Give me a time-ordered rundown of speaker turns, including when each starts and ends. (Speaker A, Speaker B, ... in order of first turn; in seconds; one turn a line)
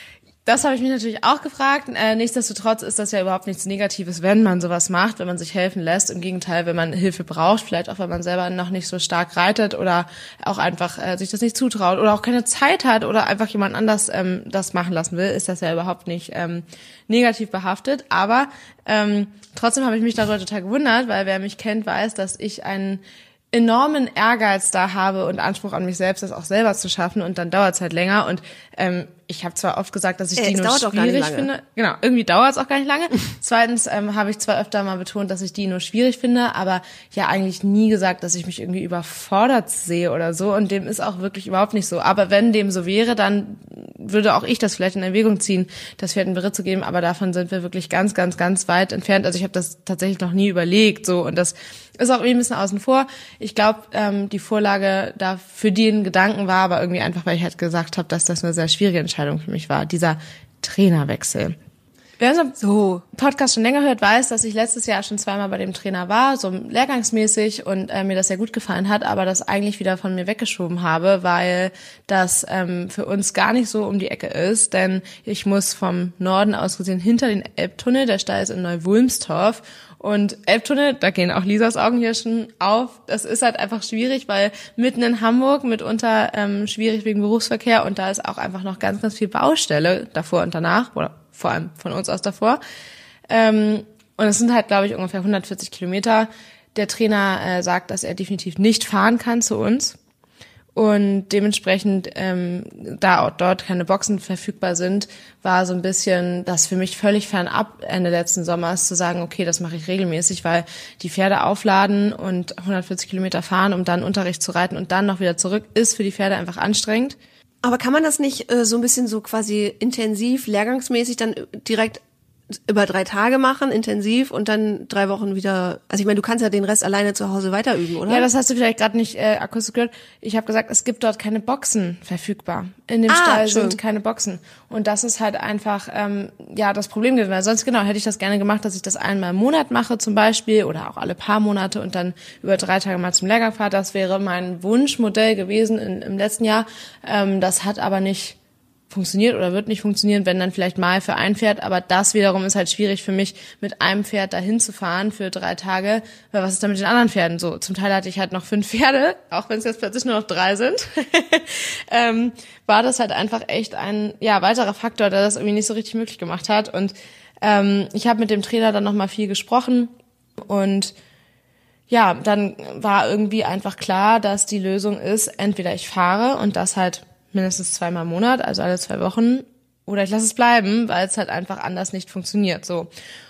Speaker A: 0.5-23.0
Speaker A: 23.5-61.5
Speaker B: 30.4-31.5
Speaker A: 62.2-62.6
Speaker B: 62.6-63.0
Speaker A: 63.1-92.6
Speaker A: 93.3-100.0
Speaker A: 100.7-117.2
Speaker B: 117.6-128.3
Speaker A: 128.1-148.3
Speaker B: 133.1-133.8
Speaker A: 148.9-169.9
Speaker A: 170.4-170.9
Speaker A: 171.9-182.9